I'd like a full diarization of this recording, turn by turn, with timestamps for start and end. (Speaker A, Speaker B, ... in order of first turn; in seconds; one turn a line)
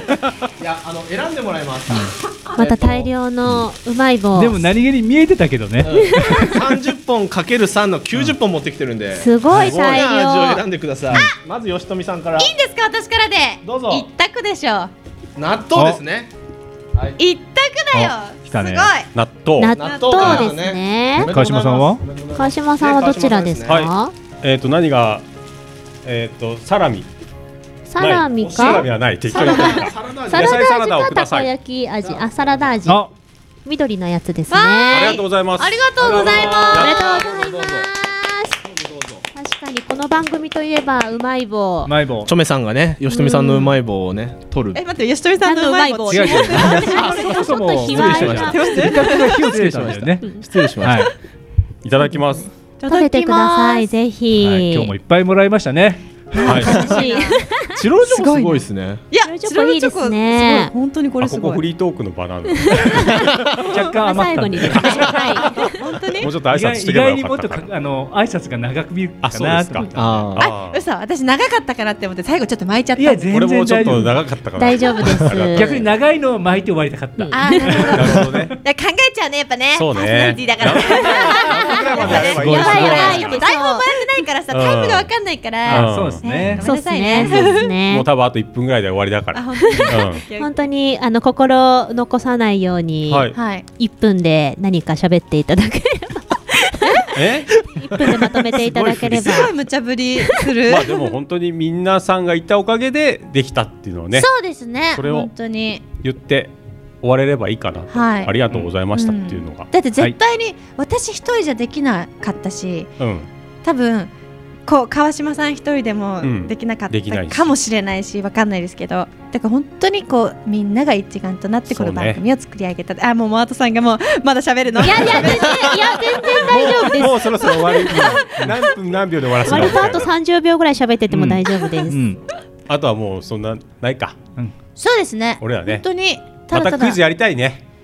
Speaker A: 0.6-3.0
Speaker B: 2.5-4.7
Speaker C: 4.3-6.5
Speaker A: 5.8-12.5
Speaker B: 6.0-6.6
Speaker B: 9.1-10.6
Speaker D: 12.4-14.9
Speaker A: 13.6-14.1
Speaker A: 15.4-16.3
Speaker D: 17.2-19.1
Speaker C: 17.9-18.9
Speaker E: 19.1-20.4
Speaker B: 19.6-21.3
Speaker A: 19.7-23.9
Speaker D: 19.9-20.2
Speaker C: 21.2-22.0
Speaker B: 22.4-24.1
Speaker E: 23.7-25.2
Speaker E: 26.0-27.1
Speaker B: 27.9-33.0
Speaker E: 28.0-31.5
Speaker A: 29.3-30.6
Speaker A: 32.0-32.5
Speaker C: 32.9-33.1
Speaker B: 33.6-35.2
Speaker D: 34.5-36.9
Speaker E: 34.9-37.2
Speaker C: 36.0-36.5
Speaker A: 36.0-37.9
Speaker B: 36.5-38.5
Speaker A: 38.6-39.2
Speaker B: 39.3-41.9
Speaker C: 41.8-42.3
Speaker A: 42.2-44.8
Speaker B: 43.1-43.7
Speaker D: 44.7-47.2
Speaker B: 45.4-49.1
Speaker C: 46.1-50.2
Speaker A: 46.7-51.1
Speaker D: 48.5-49.4
Speaker C: 50.8-51.1
Speaker E: 51.8-52.5
Speaker B: 52.3-54.9
Speaker D: 52.8-53.9
Speaker C: 54.4-56.6
Speaker D: 56.3-57.4
Speaker B: 56.4-57.7
Speaker E: 56.4-56.7
Speaker A: 57.8-59.0
Speaker D: 58.0-61.6
Speaker B: 59.2-60.7
Speaker E: 61.2-63.1
Speaker B: 62.7-63.1
Speaker A: 63.2-63.6
Speaker C: 63.6-65.5
Speaker D: 63.7-64.0
Speaker B: 64.0-65.8
Speaker D: 65.6-66.3
Speaker E: 66.2-67.7
Speaker C: 66.5-70.3
Speaker E: 69.2-70.8
Speaker A: 70.0-70.5
Speaker D: 70.4-73.3
Speaker C: 73.0-74.2
Speaker E: 73.3-75.9
Speaker B: 74.6-75.7
Speaker C: 75.5-78.5
Speaker B: 77.2-77.8
Speaker D: 77.3-87.7
Speaker E: 77.9-78.5
Speaker E: 79.7-83.4
Speaker C: 81.3-83.2
Speaker A: 82.2-82.8
Speaker B: 82.3-83.8
Speaker E: 84.5-85.1
Speaker C: 85.7-86.7
Speaker E: 85.7-86.6
Speaker B: 86.6-88.1
Speaker E: 87.2-90.2
Speaker D: 89.3-90.6
Speaker B: 89.8-99.5
Speaker E: 93.1-93.3
Speaker D: 93.3-93.7
Speaker E: 97.1-97.6
Speaker E: 98.5-99.5
Speaker D: 99.1-101.0
Speaker B: 100.2-100.5
Speaker E: 100.7-104.3
Speaker D: 104.1-105.8
Speaker E: 104.9-105.3
Speaker E: 106.0-109.7
Speaker D: 107.9-108.3
Speaker D: 108.9-112.9
Speaker E: 113.0-113.3
Speaker D: 113.6-114.1
Speaker D: 114.7-126.8
Speaker E: 116.2-117.5
Speaker E: 121.7-122.2
Speaker B: 124.8-127.3
Speaker E: 125.1-125.6
Speaker E: 126.3-130.1
Speaker D: 127.4-128.5
Speaker B: 129.4-132.0
Speaker C: 131.1-132.2
Speaker E: 132.7-134.2
Speaker D: 134.8-137.0
Speaker E: 135.4-135.8
Speaker E: 136.5-137.6